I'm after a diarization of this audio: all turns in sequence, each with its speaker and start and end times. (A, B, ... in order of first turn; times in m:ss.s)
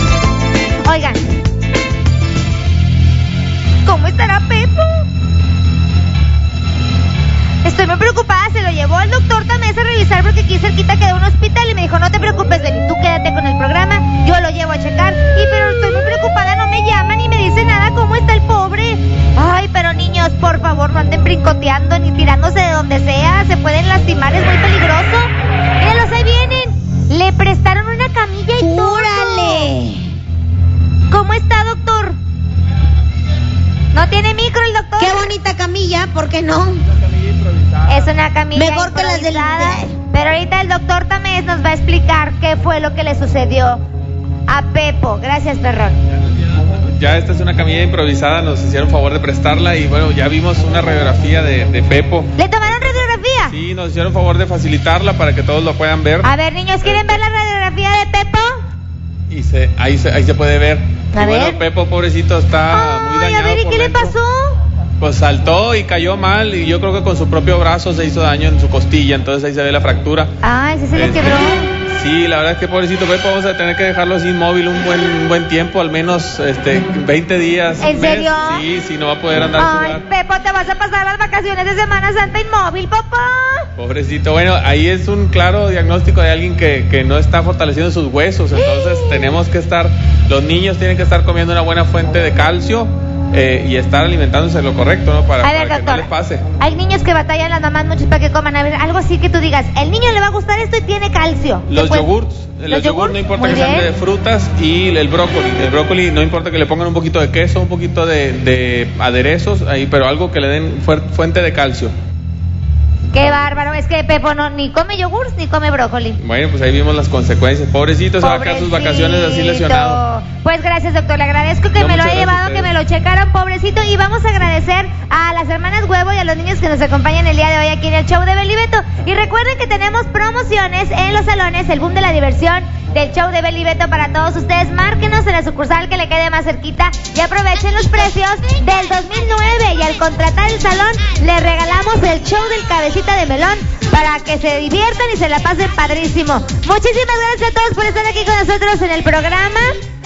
0:00.8-0:01.2 A
0:03.8-0:05.1 A
0:07.6-0:29.7 A
0:28.6-0:30.1 B
0:31.1-0:32.2 A
0:33.9-0:35.3 A
0:35.0-0:36.8 B
0:37.1-0:38.1 C
0:37.9-0:43.8 A
0:38.6-0:40.0 B
0:44.5-0:46.0 A
0:46.5-0:52.3 C
0:52.4-0:53.5 A
0:53.4-0:56.3 C
0:56.2-0:58.6 A
0:56.8-0:57.2 C
0:59.3-1:04.2 C
1:01.1-1:01.6 A
1:02.7-1:04.6 A
1:05.0-1:10.3 C
1:10.4-1:11.7 A
1:11.0-1:20.0 C
1:17.8-1:18.6 A
1:19.6-1:23.7 A
1:23.8-1:36.4 C
1:28.6-1:29.3 A
1:35.4-1:42.1 A
1:41.7-1:51.9 C
1:42.7-1:43.9 A
1:53.1-1:56.2 A
1:56.2-2:00.0 C
1:58.2-2:29.8 A
2:01.8-2:02.7 C